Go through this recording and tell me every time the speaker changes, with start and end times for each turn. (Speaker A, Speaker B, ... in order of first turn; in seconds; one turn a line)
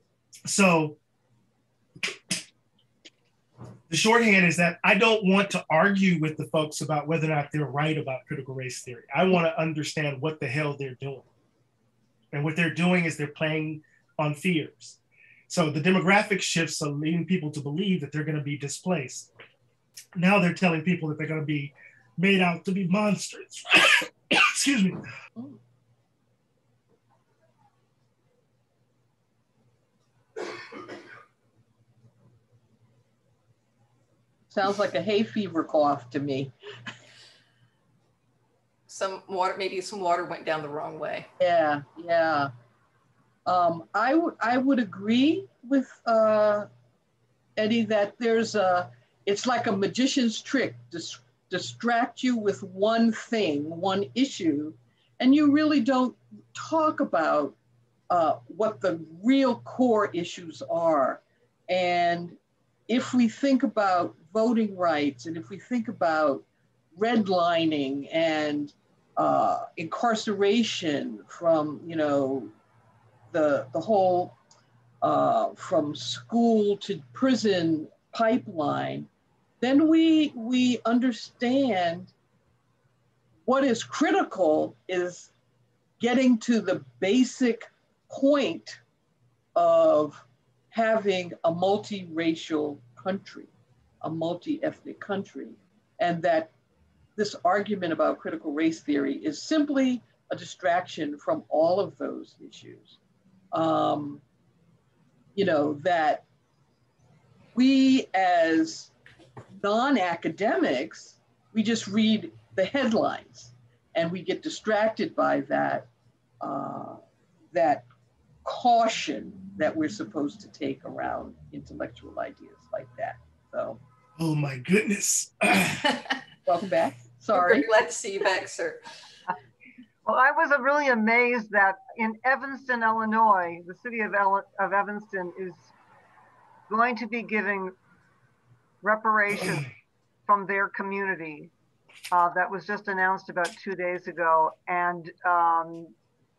Speaker A: 0.5-1.0
Speaker A: 3.9-11.3
Speaker A: 12.3-15.0
Speaker A: 15.5-19.3
Speaker A: 20.1-25.0
Speaker B: 34.5-36.5
Speaker C: 38.9-41.3
Speaker B: 41.4-42.5
Speaker B: 43.5-46.7
Speaker B: 47.5-57.5
Speaker B: 58.1-72.5
Speaker B: 73.3-74.3
Speaker B: 75.0-79.1
Speaker B: 79.6-82.1
Speaker B: 83.5-85.3
Speaker B: 86.0-88.8
Speaker B: 89.5-93.5
Speaker B: 94.0-96.5
Speaker B: 97.2-103.0
Speaker B: 103.5-104.2
Speaker B: 105.3-106.2
Speaker B: 107.5-108.9
Speaker B: 109.6-115.9
Speaker B: 116.4-117.0
Speaker B: 117.5-117.8
Speaker B: 118.4-123.8
Speaker A: 124.2-126.0
Speaker B: 126.5-127.7
Speaker C: 127.3-128.8
Speaker D: 130.1-135.7
Speaker D: 136.7-137.7
Speaker D: 138.8-139.7
Speaker D: 140.3-141.5
Speaker D: 142.1-145.9